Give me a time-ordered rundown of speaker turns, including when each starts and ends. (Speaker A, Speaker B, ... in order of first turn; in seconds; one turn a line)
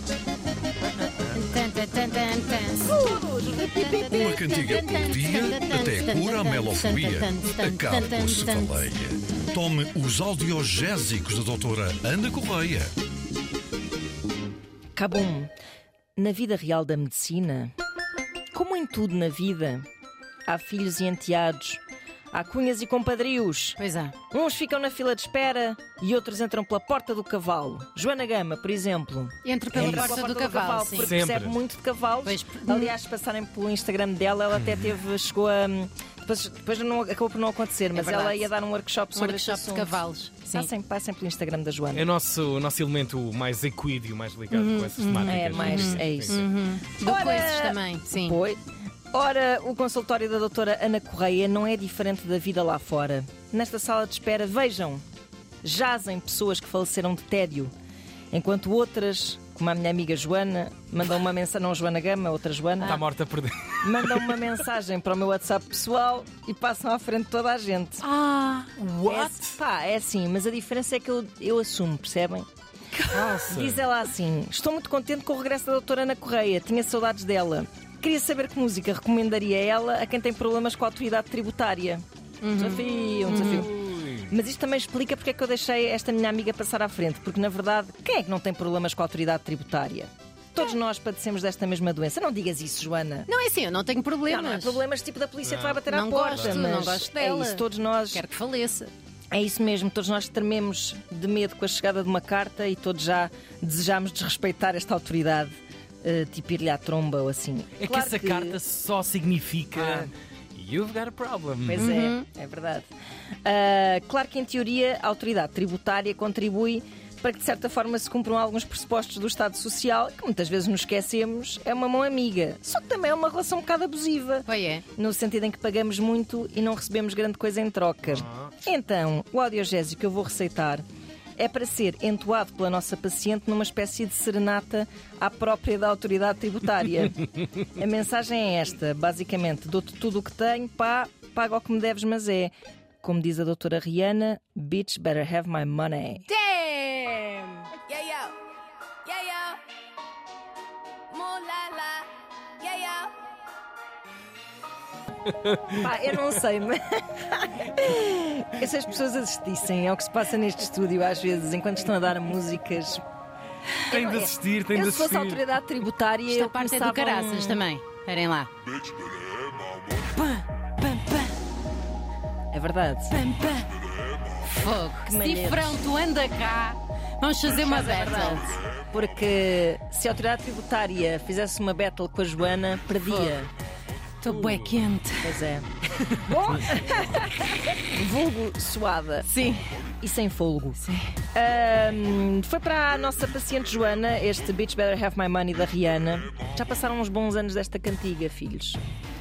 Speaker A: 1.3-3.2
Speaker B: 2.8-4.3
Speaker A: 3.7-8.8
Speaker C: 4.1-12.9
Speaker B: 14.9-15.5
Speaker B: 16.2-17.7
Speaker B: 18.5-19.8
Speaker B: 20.5-42.1
Speaker A: 23.8-24.1
Speaker A: 29.4-31.1
Speaker D: 31.0-31.6
Speaker A: 32.2-32.9
Speaker A: 37.9-38.5
Speaker A: 39.1-40.7
Speaker D: 41.9-46.5
Speaker A: 44.5-48.4
Speaker B: 45.2-46.4
Speaker B: 47.0-48.6
Speaker B: 49.1-55.0
Speaker B: 55.6-57.7
Speaker B: 58.3-63.0
Speaker D: 62.8-64.3
Speaker B: 63.8-68.2
Speaker A: 68.1-69.2
Speaker B: 68.9-72.5
Speaker B: 73.0-93.3
Speaker D: 73.1-73.8
Speaker A: 82.4-83.6
Speaker D: 83.2-84.3
Speaker A: 93.3-94.8
Speaker B: 94.3-98.2
Speaker D: 95.4-95.8
Speaker A: 95.8-98.9
Speaker D: 96.3-96.7
Speaker B: 99.3-108.6
Speaker D: 107.8-111.9
Speaker B: 109.7-110.1
Speaker B: 111.7-112.9
Speaker A: 111.8-112.2
Speaker B: 113.4-130.8
Speaker A: 124.5-124.8
Speaker D: 128.0-128.5
Speaker B: 131.4-146.3
Speaker A: 146.3-147.7
Speaker E: 147.8-148.3
Speaker E: 149.1-149.6
Speaker E: 151.1-152.1
Speaker E: 152.6-153.1
Speaker D: 155.4-155.7
Speaker B: 155.7-163.0
Speaker B: 163.9-167.6
Speaker D: 163.9-165.4
Speaker A: 166.3-168.5
Speaker A: 170.1-171.3
Speaker B: 172.5-173.3
Speaker A: 173.1-173.7
Speaker A: 174.4-178.6
Speaker B: 175.0-175.8
Speaker B: 177.6-183.5
Speaker A: 183.0-183.4
Speaker A: 184.2-185.4
Speaker D: 184.3-184.6
Speaker B: 185.2-185.7
Speaker B: 186.2-187.2
Speaker B: 187.8-189.3
Speaker A: 189.3-189.7
Speaker B: 190.0-190.8
Speaker A: 190.8-191.1
Speaker B: 191.3-198.8